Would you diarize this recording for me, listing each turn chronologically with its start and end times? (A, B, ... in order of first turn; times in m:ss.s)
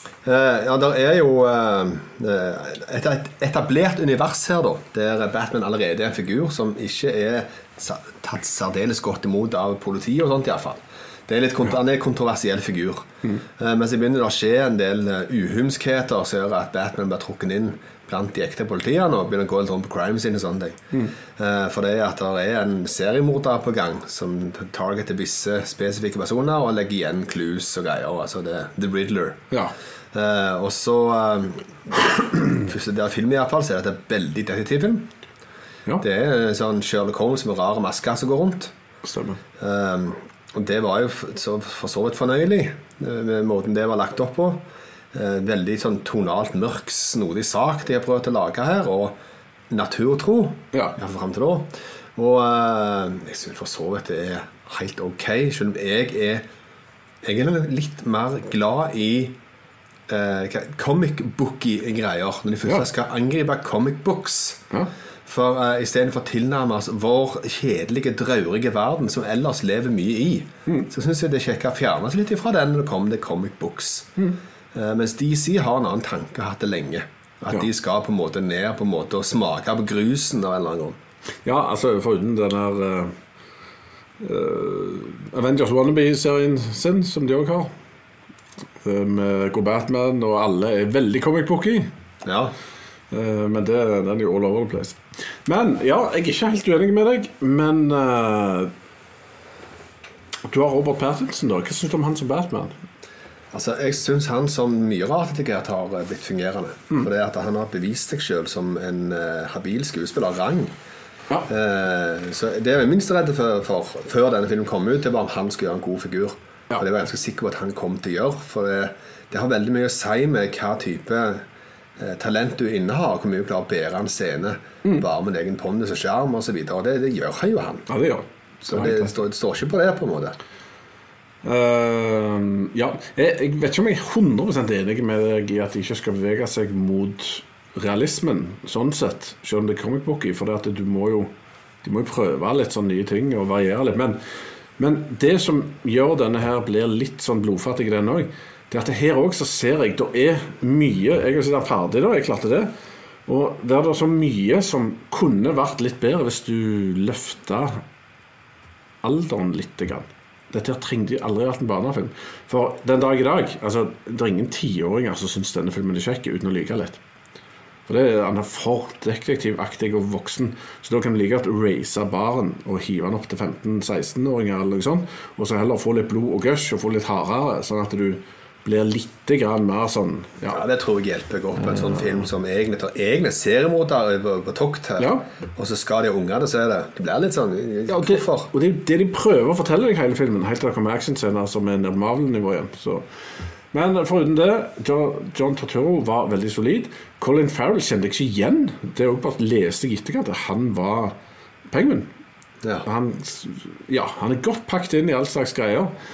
0:00.2-0:29.4 A
0:30.1-0:35.1 A
0:36.0-0:38.7 A
0:39.0-0:39.4 B
0:39.6-0:49.2 A
0:49.7-0:56.4 A
0:57.2-0:59.4 A
1:00.1-1:04.6 A
1:05.3-1:14.1 A
1:14.7-1:21.0 A
1:21.4-1:23.2 B
1:24.2-1:27.7 B
1:28.8-1:31.9 B
1:32.2-1:32.5 A
1:33.1-1:38.7 B
1:40.5-1:42.8 B
1:43.5-1:50.7 A
1:51.5-2:01.4 A
2:02.0-2:07.9 A
2:07.9-2:09.1 B
2:08.6-2:10.4 A
2:11.4-2:21.3 B
2:21.8-2:24.2 B
2:24.8-2:32.7 B
2:33.3-2:37.8 B
2:39.0-2:47.0 B
2:47.9-3:00.6 B
3:00.5-3:08.5 A
3:01.6-3:02.1 B
3:05.0-3:05.3 B
3:07.9-3:13.0 B
3:13.7-3:21.2 B
3:21.7-3:22.1 B
3:22.8-3:25.9 B